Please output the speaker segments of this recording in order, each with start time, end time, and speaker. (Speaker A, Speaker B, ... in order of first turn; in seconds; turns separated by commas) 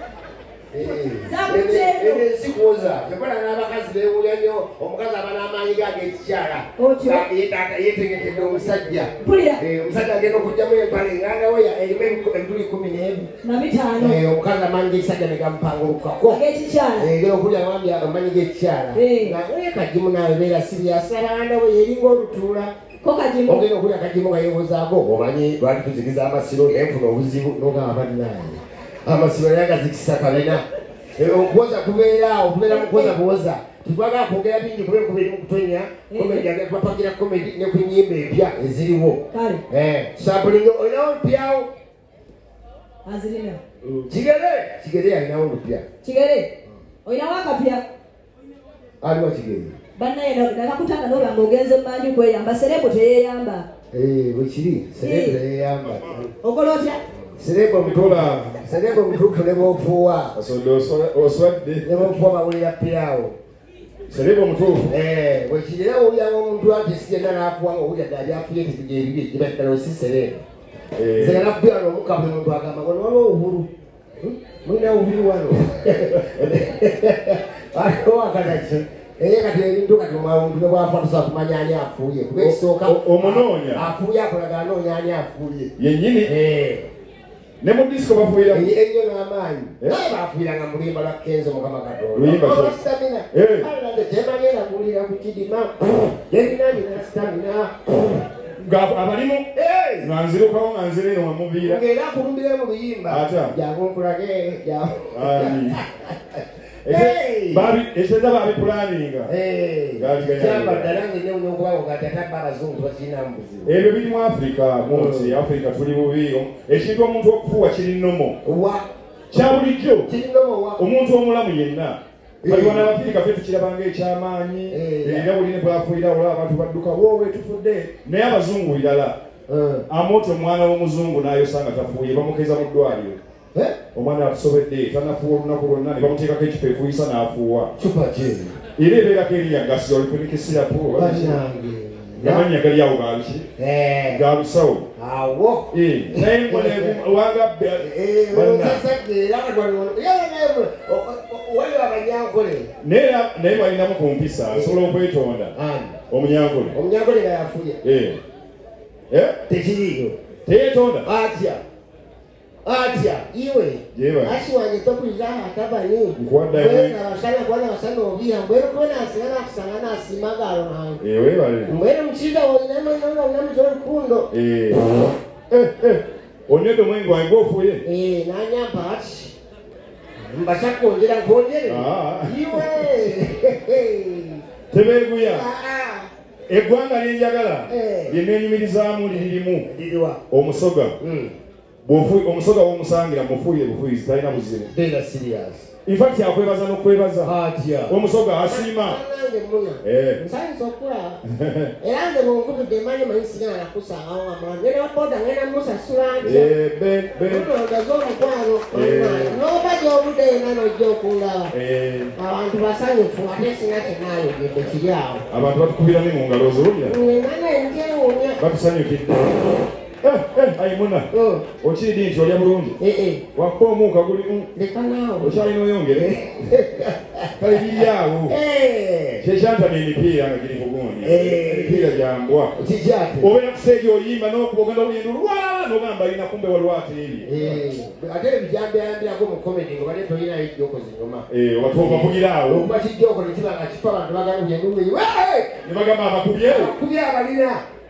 Speaker A: 0.7-13.3, Speaker B: 0.8-2.2, Speaker B: 6.8-7.3, Speaker B: 9.2-9.6, Speaker B: 13.4-14.2, Speaker A: 14.0-16.4, Speaker B: 16.3-17.1, Speaker A: 16.9-22.7, Speaker B: 18.9-19.4, Speaker B: 23.0-23.6, Speaker A: 23.5-30.6, Speaker A: 31.2-41.7, Speaker B: 32.7-33.1, Speaker B: 36.1-36.5, Speaker B: 39.3-39.6, Speaker B: 43.0-43.6, Speaker A: 43.8-45.9, Speaker B: 46.0-46.5, Speaker B: 47.0-47.8, Speaker A: 49.0-49.8, Speaker B: 50.0-53.7, Speaker A: 53.9-56.3, Speaker B: 55.0-55.4, Speaker B: 56.4-57.0, Speaker A: 57.3-60.4, Speaker C: 57.8-58.5, Speaker C: 60.4-62.1, Speaker A: 61.8-63.4, Speaker C: 64.1-64.9, Speaker A: 64.9-70.4, Speaker C: 71.0-71.5, Speaker A: 71.2-73.7, Speaker A: 74.2-85.7, Speaker C: 76.1-76.3, Speaker C: 82.4-83.9, Speaker C: 85.8-86.3, Speaker A: 86.2-86.9, Speaker C: 87.6-88.7, Speaker A: 88.5-98.2, Speaker C: 92.1-92.8, Speaker C: 93.3-93.7, Speaker C: 98.6-99.5, Speaker A: 99.5-100.1, Speaker C: 100.0-101.8, Speaker A: 101.6-107.7, Speaker C: 103.1-103.5, Speaker C: 105.1-105.8, Speaker C: 106.8-109.3, Speaker A: 109.2-113.8, Speaker C: 110.0-111.0, Speaker C: 113.7-118.4, Speaker A: 114.8-115.4, Speaker A: 118.4-118.9, Speaker C: 119.3-120.1, Speaker A: 120.1-120.8, Speaker C: 120.8-129.2, Speaker A: 122.4-123.0, Speaker A: 124.7-125.3, Speaker A: 129.5-129.9, Speaker C: 129.9-133.2, Speaker C: 133.9-137.7, Speaker A: 137.8-138.6, Speaker C: 138.8-141.4, Speaker A: 140.9-142.5, Speaker C: 142.2-143.5, Speaker A: 143.6-144.2, Speaker C: 144.1-144.9, Speaker A: 145.0-147.0, Speaker C: 145.7-148.8, Speaker A: 147.8-152.7, Speaker C: 152.8-155.5, Speaker A: 154.5-154.8, Speaker A: 155.5-156.0, Speaker C: 156.1-156.8, Speaker A: 156.7-157.8, Speaker C: 157.8-158.2, Speaker C: 159.1-159.4, Speaker A: 159.5-160.2, Speaker C: 160.4-161.1, Speaker A: 161.0-161.6, Speaker A: 162.7-171.0, Speaker C: 163.9-164.4, Speaker C: 166.2-167.0, Speaker C: 171.0-171.7, Speaker A: 171.7-174.3, Speaker C: 174.3-174.9, Speaker C: 175.5-177.8, Speaker A: 177.8-179.3, Speaker A: 180.2-184.4, Speaker C: 181.7-182.9, Speaker C: 184.7-185.5, Speaker A: 185.2-186.1, Speaker C: 186.5-189.7, Speaker A: 187.7-188.2, Speaker A: 189.1-190.2, Speaker C: 190.3-191.0, Speaker A: 191.0-191.3, Speaker C: 191.8-194.7, Speaker A: 194.7-195.7, Speaker C: 195.9-197.3, Speaker A: 197.2-201.2, Speaker C: 197.9-199.0, Speaker C: 199.8-200.2, Speaker C: 201.3-201.7, Speaker A: 201.8-206.5, Speaker C: 206.2-207.5, Speaker A: 207.2-211.5, Speaker C: 208.7-209.4, Speaker C: 211.5-212.1, Speaker A: 212.2-215.2, Speaker C: 215.3-217.0, Speaker A: 216.8-218.4, Speaker C: 218.4-221.1, Speaker A: 221.1-221.4, Speaker C: 221.6-222.8, Speaker A: 222.8-223.2, Speaker C: 223.3-224.5, Speaker A: 224.5-229.2, Speaker C: 225.2-226.5, Speaker C: 227.4-228.4, Speaker C: 229.2-232.6, Speaker A: 231.0-232.0, Speaker A: 232.6-233.3, Speaker C: 233.2-237.6, Speaker A: 237.2-245.6, Speaker C: 241.3-242.7, Speaker C: 245.6-246.7, Speaker A: 246.4-247.6